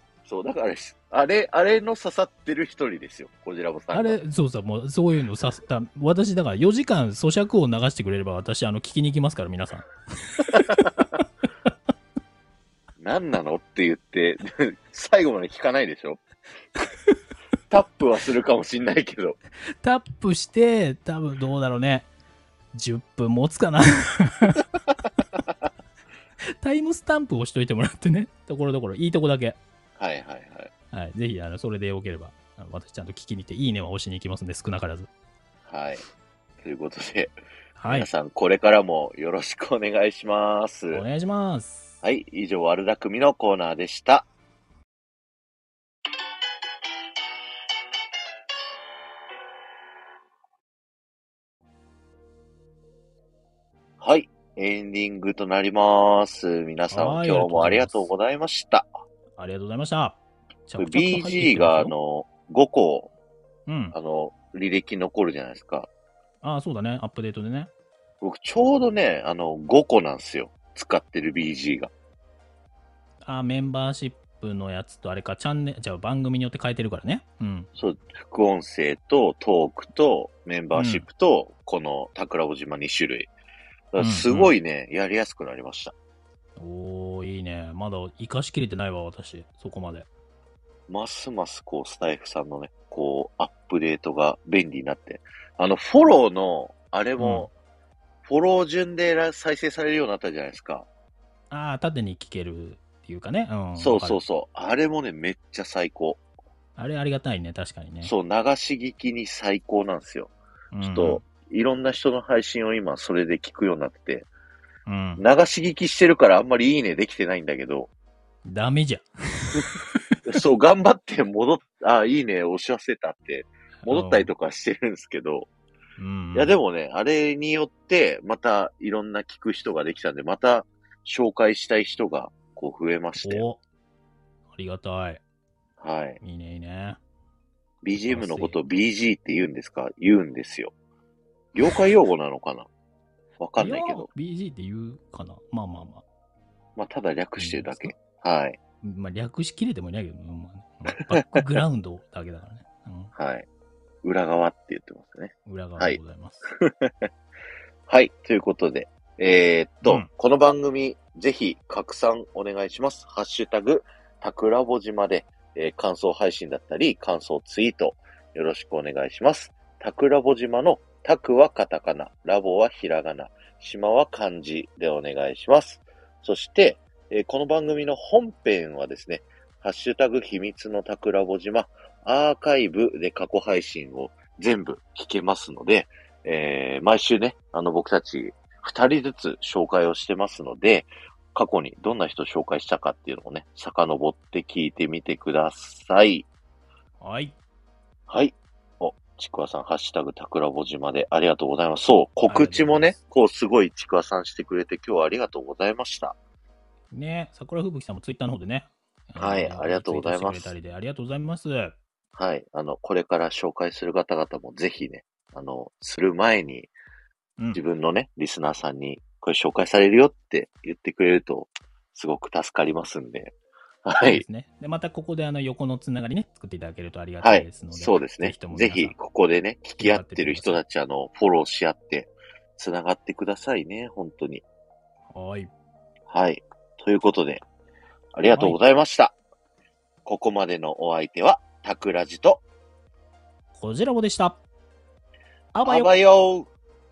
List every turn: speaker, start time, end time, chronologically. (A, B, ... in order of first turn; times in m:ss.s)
0:00.3-0:04.2 A
0:03.9-0:11.0 B
0:13.0-0:16.2 A
0:17.7-0:19.4 A
0:19.8-0:22.1 B
0:22.7-0:24.7 B
0:26.6-0:29.6 B
0:30.0-0:30.7 A
0:30.9-0:35.1 B
0:35.7-0:36.0 A
0:36.6-0:37.3 A
0:37.8-0:38.1 B
0:37.8-0:41.0 A
0:40.9-0:41.9 B
0:42.0-0:44.2 A
0:54.0-0:58.9 A
0:56.9-0:58.1 B
0:59.4-1:01.9 B
1:00.8-1:03.1 A
1:03.7-1:03.9 B
1:03.9-1:05.9 A
1:06.4-1:07.7 B
1:08.2-1:11.9 A
1:13.2-1:17.7 B
1:17.8-1:23.3 A
1:20.7-1:21.0 B
1:23.9-1:25.9 A
1:24.0-1:24.5 B
1:26.6-1:30.1 B
1:30.9-1:37.5 A
1:37.2-1:37.5 B
1:38.2-1:40.9 A
1:41.5-1:44.2 B
1:43.8-1:46.2 A
1:46.8-1:48.1 B
1:48.0-1:54.3 A
1:50.7-1:51.2 B
1:54.9-1:55.2 B
1:55.2-1:57.9 A
1:58.4-2:00.0 B
2:00.2-2:05.5 A
2:03.8-2:04.3 B
2:06.0-2:06.6 B
2:06.3-2:13.4 A
2:13.2-2:13.6 B
2:14.5-2:15.2 B
2:15.8-2:16.2 A
2:16.2-2:17.0 B
2:17.8-2:20.7 A
2:18.0-2:18.6 B
2:21.6-2:22.7 A
2:23.4-2:24.1 A
2:23.6-2:26.0 B
2:26.8-2:28.6 A
2:27.4-2:27.9 B
2:28.8-2:33.1 B
2:31.0-2:31.4 A
2:33.1-2:33.4 A
2:34.0-2:37.1 A
2:35.4-2:36.5 B
2:37.9-3:16.3 A
3:17.0-3:17.4 B
3:18.1-3:26.1 A
3:22.3-3:23.0 B
3:26.9-3:31.7 B
3:29.2-3:30.5 A
3:32.2-3:36.7 A
3:37.5-3:43.3 A
3:43.8-3:44.2 A
3:44.0-3:49.0 B
3:47.2-3:54.4 A
3:49.8-3:50.6 B
3:55.1-3:55.5 B
3:56.1-3:57.4 A
3:58.2-3:59.1 A
4:00.0-4:02.4 A
4:03.5-4:04.4 B
4:05.5-4:05.9 B
4:05.6-4:06.5 A